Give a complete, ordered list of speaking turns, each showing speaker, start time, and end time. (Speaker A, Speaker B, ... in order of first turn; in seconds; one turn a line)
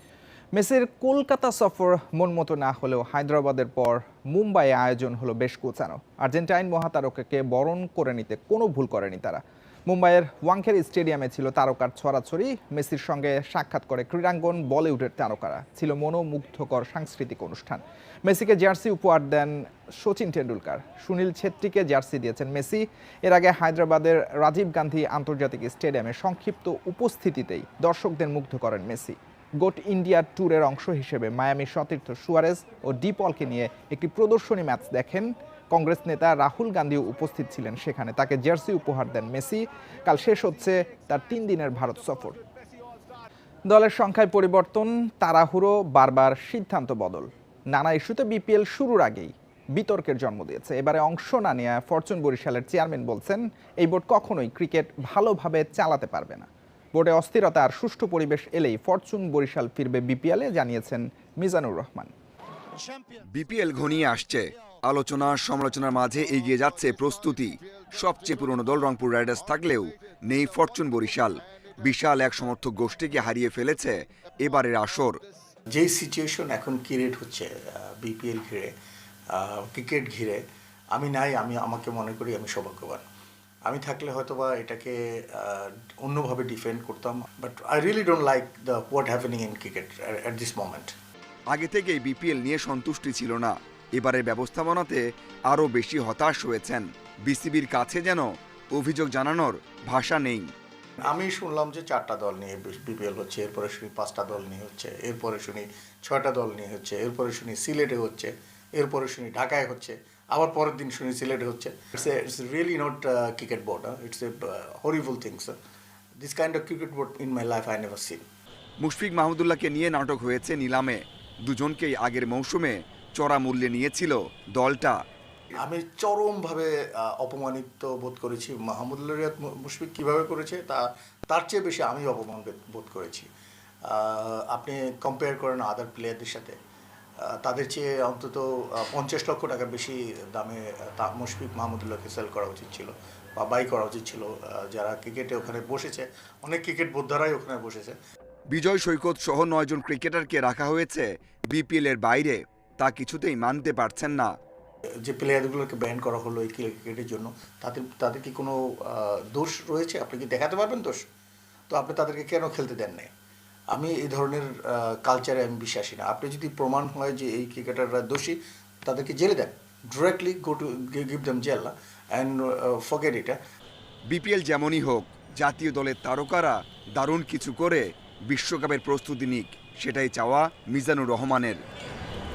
Speaker A: 0.5-42.4
Speaker A: 43.7-62.1
Speaker B: 63.3-75.2
Speaker C: 75.8-78.7
Speaker C: 79.3-80.4
Speaker C: 81.0-83.0
Speaker C: 83.7-90.9
Speaker B: 91.5-100.5
Speaker C: 101.0-115.5
Speaker C: 116.2-118.2
Speaker B: 118.8-125.0
Speaker C: 125.6-133.3
Speaker C: 133.9-136.6
Speaker C: 137.3-148.0
Speaker B: 148.5-154.3
Speaker C: 155.1-161.0
Speaker C: 161.7-163.1
Speaker C: 163.7-173.4
Speaker B: 174.1-181.6